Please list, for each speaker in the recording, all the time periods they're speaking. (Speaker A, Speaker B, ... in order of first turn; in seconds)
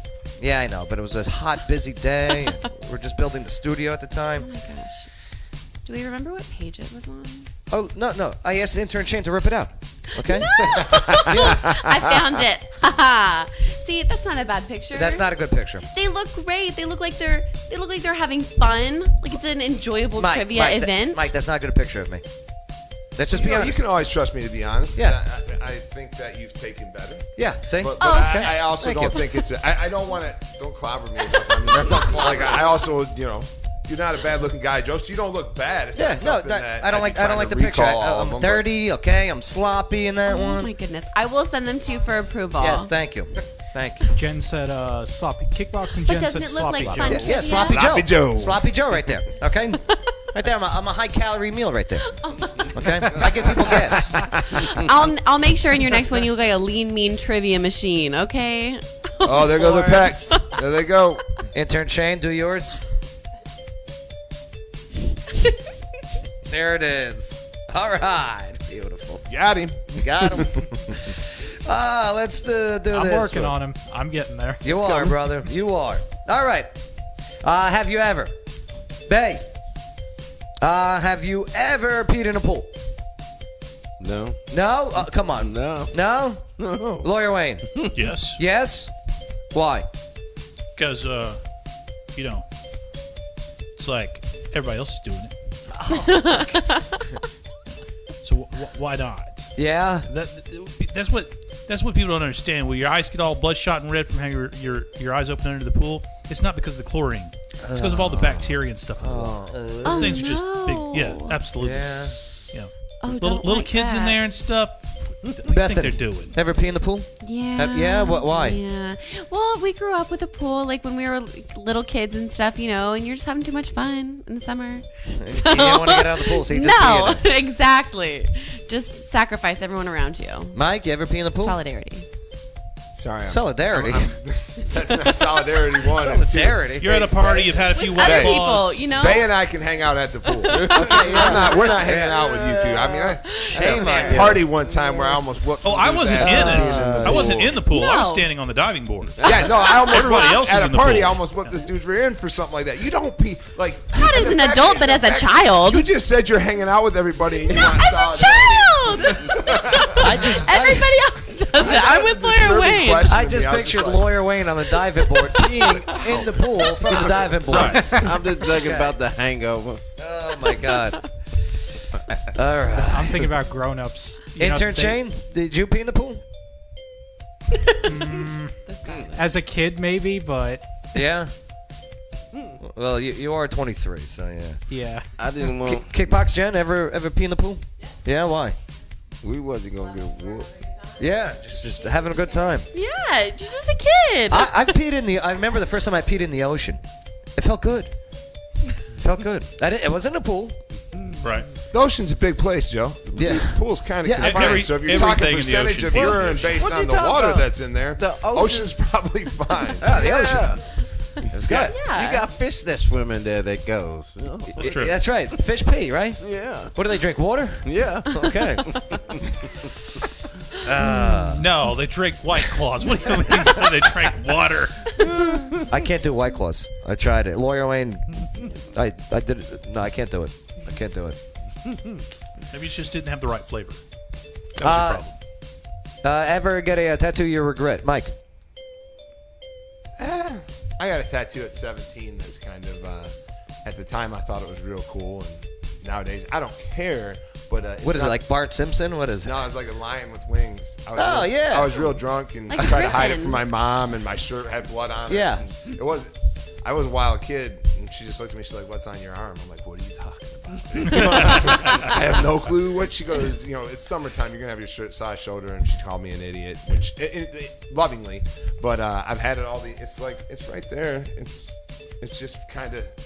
Speaker A: 0.4-4.5, 7.7-10.7, 11.2-11.6, 14.9-15.8, 20.2-22.2, 23.1-23.8, 27.4-29.2, 31.7-32.6, 36.0-40.7, 42.6-44.1, 47.0-52.1, 52.7-54.1, 61.5-62.8, 66.5-69.3, 69.9-73.6, 74.6-76.7, 77.4-78.3, 79.1-79.4, 80.6-82.7, 84.5-86.4, 87.0-87.7, 88.4-88.9, 89.5-89.9, 95.7-96.7, 99.6-100.1, 107.6-110.2, 111.6-112.2, 115.5-118.6, 125.2-127.3, 130.5-131.6, 133.3-134.2, 135.9-137.1, 141.8-142.2, 143.5-144.4, 146.2-147.5, 159.9-160.9, 163.1-168.9, 170.0-171.1, 172.3-173.3, 174.4-176.2, 180.9-181.3, 182.6-184.6, 185.6-188.6, 191.0-192.7, 194.3-196.8, 197.4-197.9, 199.0-200.6, 203.1-204.9, 209.8-210.6, 211.4-211.7, 214.5-218.7, 220.6-221.5, 225.7-228.1, 228.6-231.2, 234.6-235.0, 236.0-238.1, 247.8-249.5, 250.9-251.9, 255.1-255.4
Speaker B: 4.4-5.1, 5.8-7.5, 10.2-15.3, 15.8-21.3, 28.0-29.3, 31.7-32.1, 40.3-42.9, 46.0-47.8, 52.2-53.7, 54.5-60.6, 95.9-97.1, 109.8-111.4, 113.0-114.2, 117.2-130.6, 131.4-132.1, 137.7-139.3, 140.3-144.4, 147.7-148.3, 149.7-150.4, 153.9-155.9, 157.4-163.1, 164.9-166.0, 178.7-179.2, 192.7-194.7, 211.7-212.3, 252.5-253.4
Speaker C: 10.7-11.8, 23.3-27.3, 27.8-38.6, 46.8-48.6, 53.7-54.7, 59.2-61.2, 69.3-70.7, 74.8-75.1, 132.9-147.6, 149.2-160.2, 161.6-164.2, 165.6-167.4, 201.7-210.5, 240.0-243.1, 243.6-248.2, 249.2-256.1, 256.6-272.9
Speaker D: 44.1-47.4, 72.9-74.7, 172.9-175.0, 177.8-178.6, 179.2-180.6, 184.7-185.1
Speaker E: 84.0-84.4, 85.2-86.0, 86.6-87.1, 87.7-88.0, 140.5-141.4, 143.6-144.8, 167.5-169.8, 185.2-185.9, 189.2-190.6, 200.9-201.2, 206.0-208.7, 209.8-210.6, 211.3-214.9, 216.2-216.7, 217.6-219.6, 225.0-225.7, 231.7-232.0
Speaker F: 88.0-88.4, 90.7-91.4, 92.1-92.5, 93.8-95.3, 98.2-99.6, 100.1-116.4, 136.8-138.9, 145.6-151.6, 167.5-167.9, 201.2-201.5, 204.2-206.6, 214.6-215.0, 221.3-225.1, 232.5-233.8, 234.6-235.2